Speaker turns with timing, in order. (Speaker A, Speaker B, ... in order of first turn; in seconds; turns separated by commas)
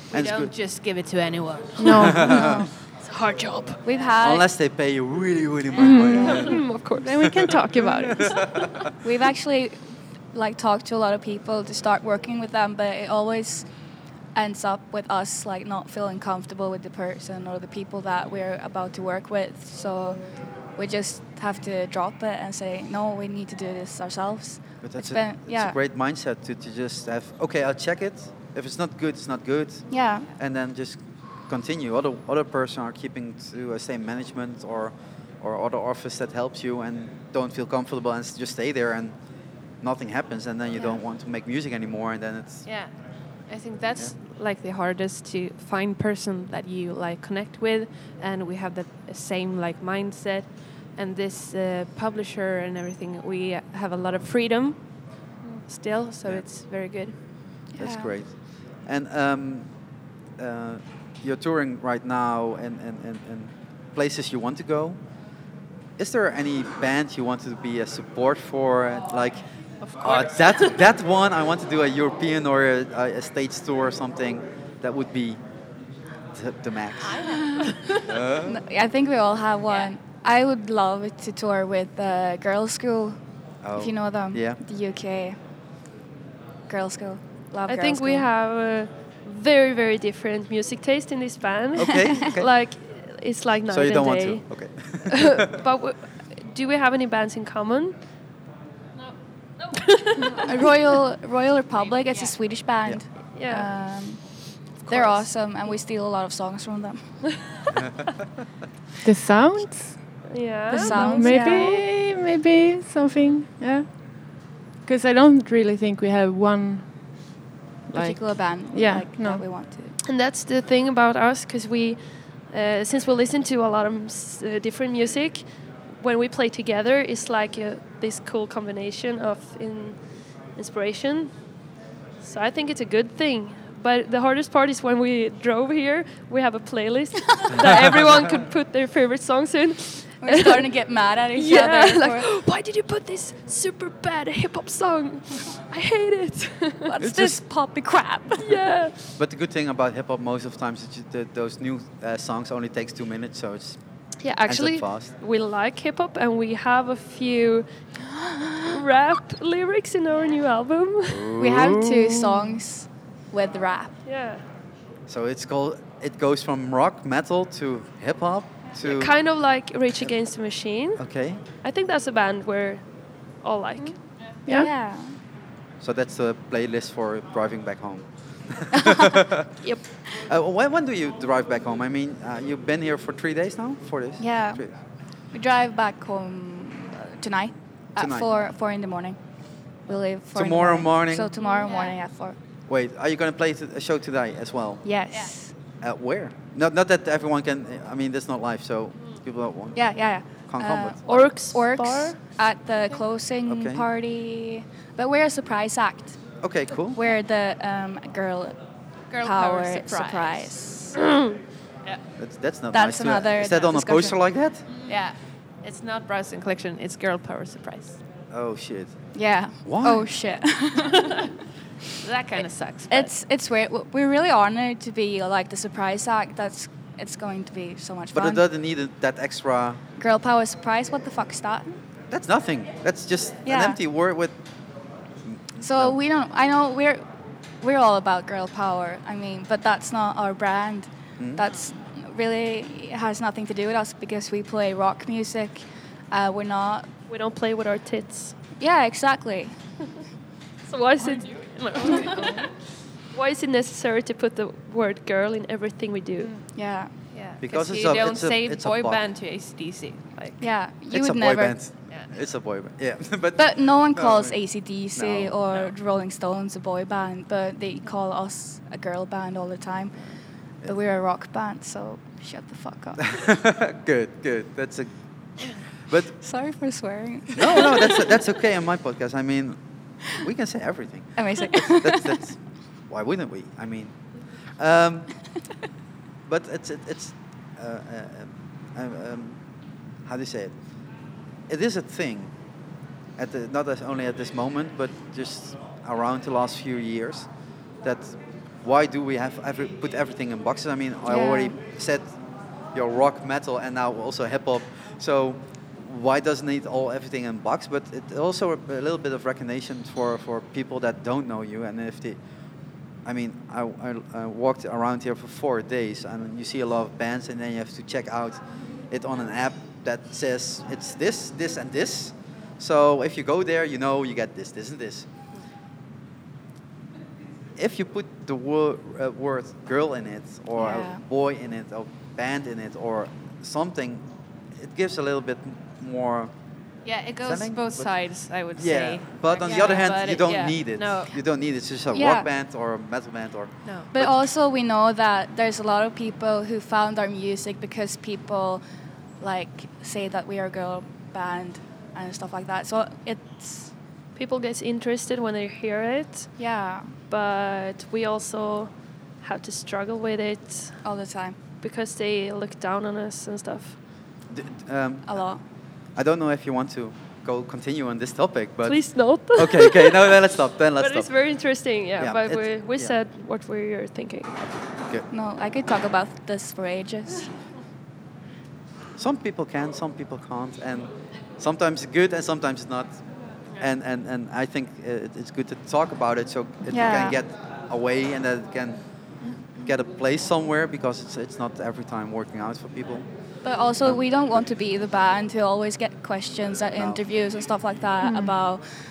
Speaker A: 0.1-0.5, Speaker B: 0.1-2.2, Speaker C: 1.8-2.5, Speaker A: 2.1-2.6, Speaker D: 2.3-2.7, Speaker E: 3.0-3.8, Speaker D: 3.8-4.5, Speaker A: 4.2-6.6, Speaker C: 5.8-8.4, Speaker D: 6.1-6.5, Speaker E: 6.2-7.5, Speaker A: 7.2-8.7, Speaker D: 9.0-9.8, Speaker D: 10.3-13.7, Speaker D: 14.3-20.2, Speaker D: 20.8-25.8, Speaker A: 24.8-39.2, Speaker D: 29.9-30.3, Speaker A: 39.8-42.7, Speaker B: 42.6-42.9, Speaker B: 43.5-54.8, Speaker B: 55.4-57.1, Speaker D: 57.7-58.2, Speaker A: 57.8-59.7, Speaker A: 60.4-65.0, Speaker A: 66.0-69.4, Speaker B: 69.8-70.8, Speaker A: 70.0-75.4, Speaker A: 76.3-77.3, Speaker B: 77.0-78.2, Speaker D: 77.5-77.8, Speaker A: 78.0-78.6, Speaker D: 78.4-83.2, Speaker A: 83.6-84.6, Speaker D: 83.8-85.4, Speaker D: 86.7-88.3, Speaker E: 87.7-94.5, Speaker A: 91.8-92.5, Speaker A: 93.7-95.5, Speaker E: 95.0-98.0, Speaker E: 99.7-100.5, Speaker D: 100.4-107.3, Speaker E: 103.3-103.7, Speaker E: 104.9-105.2, Speaker A: 107.8-108.0, Speaker C: 109.0-110.2, Speaker E: 110.2-111.7, Speaker D: 110.7-111.8, Speaker C: 110.7-117.1, Speaker C: 117.9-119.4, Speaker D: 117.9-119.9, Speaker E: 120.0-131.3, Speaker E: 132.2-140.7, Speaker A: 137.6-137.9, Speaker D: 140.2-142.3, Speaker E: 141.4-147.1, Speaker D: 146.8-148.6, Speaker A: 147.0-147.4, Speaker E: 148.4-149.0, Speaker A: 149.2-153.8, Speaker E: 154.2-157.7, Speaker A: 154.4-155.1, Speaker E: 158.5-161.3, Speaker A: 161.1-162.4, Speaker D: 161.4-164.0, Speaker E: 164.1-164.4, Speaker A: 165.1-169.1, Speaker E: 168.8-171.0, Speaker A: 171.0-171.4, Speaker E: 171.6-172.8, Speaker E: 173.4-174.0, Speaker D: 174.5-175.2, Speaker A: 175.8-179.5, Speaker D: 178.7-179.0, Speaker A: 180.2-184.7, Speaker D: 184.2-184.6, Speaker D: 185.3-189.2, Speaker A: 188.0-188.3, Speaker D: 189.8-192.4, Speaker A: 190.3-191.3, Speaker B: 191.5-191.9, Speaker A: 192.7-194.8, Speaker D: 194.8-195.5, Speaker A: 195.8-199.9, Speaker D: 199.8-206.2, Speaker A: 200.5-201.0, Speaker E: 201.1-202.2, Speaker A: 203.5-203.8, Speaker A: 206.4-207.0, Speaker D: 206.9-208.6, Speaker B: 209.1-210.5, Speaker D: 209.2-211.0, Speaker A: 212.2-214.7, Speaker D: 212.7-214.2, Speaker B: 214.9-218.0, Speaker A: 218.3-218.9, Speaker D: 219.1-221.2, Speaker A: 219.6-220.1, Speaker B: 222.0-223.1, Speaker D: 222.9-228.4, Speaker A: 228.1-229.8, Speaker D: 230.0-231.8, Speaker A: 232.1-234.4, Speaker D: 233.4-233.8, Speaker A: 235.3-236.0, Speaker D: 235.6-237.1, Speaker D: 237.6-246.9, Speaker A: 241.2-241.4, Speaker E: 247.1-248.3, Speaker D: 248.6-249.6, Speaker E: 250.7-252.3, Speaker B: 251.0-252.5, Speaker E: 253.1-256.3, Speaker D: 256.5-256.9, Speaker B: 257.1-260.5, Speaker A: 257.4-259.0, Speaker D: 260.4-261.6, Speaker A: 260.9-264.4, Speaker D: 263.4-270.1, Speaker A: 264.9-265.4, Speaker D: 270.6-273.2, Speaker A: 273.0-274.9, Speaker A: 275.9-276.2, Speaker D: 276.2-278.1, Speaker A: 277.4-285.1, Speaker D: 281.2-282.2, Speaker A: 286.2-289.4, Speaker A: 290.0-290.6, Speaker A: 291.5-292.3, Speaker A: 293.2-297.3, Speaker A: 297.8-302.1, Speaker D: 301.1-301.6, Speaker A: 302.7-312.2, Speaker A: 313.1-325.1, Speaker A: 327.6-336.3, Speaker D: 330.6-331.0, Speaker B: 336.9-341.1, Speaker A: 337.2-337.9, Speaker A: 338.6-344.1, Speaker D: 341.9-342.3, Speaker B: 343.6-343.9, Speaker D: 343.9-348.6, Speaker D: 349.2-353.7, Speaker E: 354.2-356.4, Speaker D: 356.4-356.9, Speaker E: 357.1-360.8, Speaker D: 360.8-361.4, Speaker E: 361.6-363.8, Speaker A: 364.3-365.3, Speaker D: 365.1-365.4, Speaker A: 365.9-371.1, Speaker E: 368.6-370.2, Speaker E: 370.8-374.4, Speaker A: 372.0-373.0, Speaker D: 375.1-377.3, Speaker A: 379.0-383.0, Speaker A: 383.6-388.8, Speaker D: 386.7-387.2, Speaker A: 389.5-393.1, Speaker D: 393.4-398.6, Speaker A: 396.8-397.0, Speaker C: 398.0-398.4